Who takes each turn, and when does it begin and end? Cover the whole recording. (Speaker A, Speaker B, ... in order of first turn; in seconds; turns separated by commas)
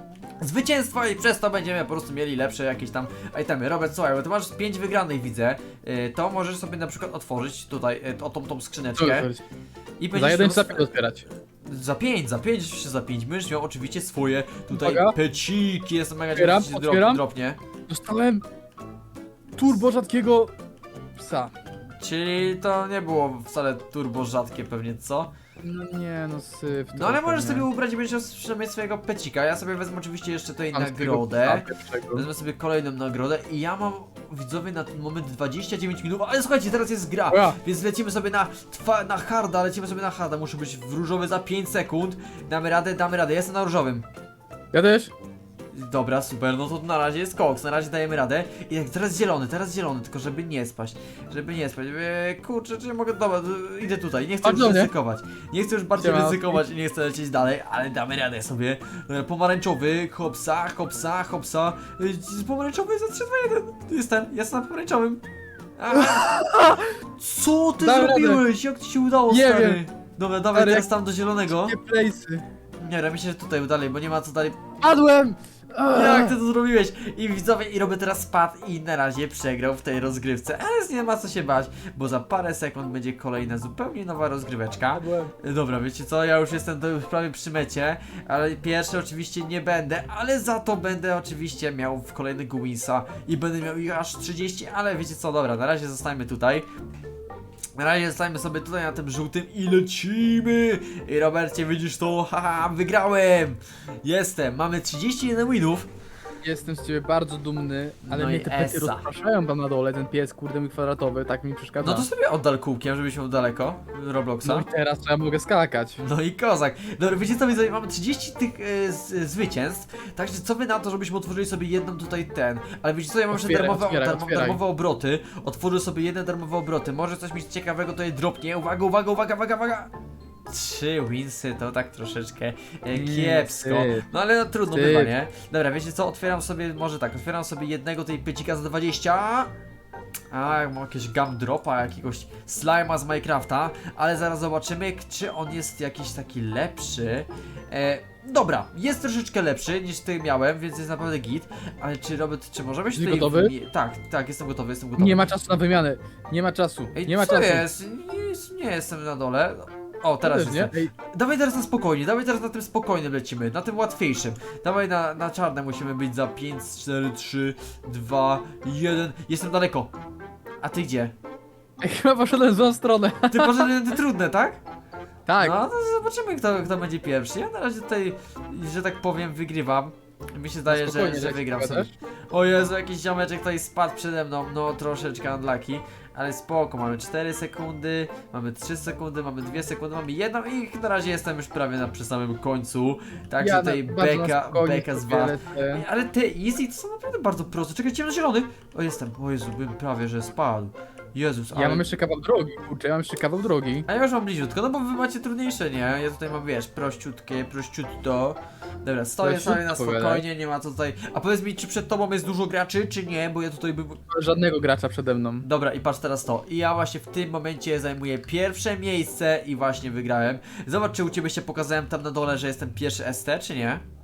Speaker A: 0.4-9.3, Speaker B: 8.9-9.4, Speaker A: 10.0-10.9, Speaker B: 10.1-11.2, Speaker A: 11.6-17.6, Speaker B: 14.7-15.2, Speaker B: 16.3-17.2, Speaker B: 17.9-18.4, Speaker B: 19.6-20.5, Speaker B: 21.1-21.5, Speaker A: 22.0-25.3, Speaker B: 25.6-27.7, Speaker A: 26.9-44.0, Speaker B: 30.7-32.2, Speaker B: 37.3-37.6, Speaker B: 44.7-45.1, Speaker A: 45.7-65.2, Speaker B: 54.4-54.9, Speaker B: 56.0-56.6, Speaker A: 65.8-71.7, Speaker B: 65.9-66.8, Speaker B: 67.8-68.4, Speaker B: 69.3-69.8, Speaker B: 70.5-70.9, Speaker B: 71.5-72.4, Speaker A: 72.8-74.6, Speaker B: 74.8-76.3, Speaker A: 75.9-96.7, Speaker B: 84.9-85.3, Speaker A: 97.8-105.9, Speaker B: 106.4-112.1, Speaker A: 108.0-109.1, Speaker A: 111.8-114.7, Speaker B: 114.4-116.0, Speaker A: 116.0-129.9, Speaker B: 123.3-124.6, Speaker A: 130.5-139.5, Speaker B: 132.9-134.1, Speaker B: 134.7-135.1, Speaker A: 140.3-155.3, Speaker B: 152.9-153.5, Speaker B: 155.0-157.7, Speaker A: 156.9-169.9, Speaker B: 160.2-160.9, Speaker A: 170.6-171.1, Speaker B: 171.8-173.7, Speaker A: 173.3-174.6, Speaker B: 175.2-175.6, Speaker A: 175.4-201.8, Speaker B: 180.7-181.9, Speaker B: 193.4-195.8, Speaker B: 201.5-203.8, Speaker A: 203.9-214.0, Speaker B: 209.2-210.2, Speaker B: 214.1-215.5, Speaker A: 215.4-223.8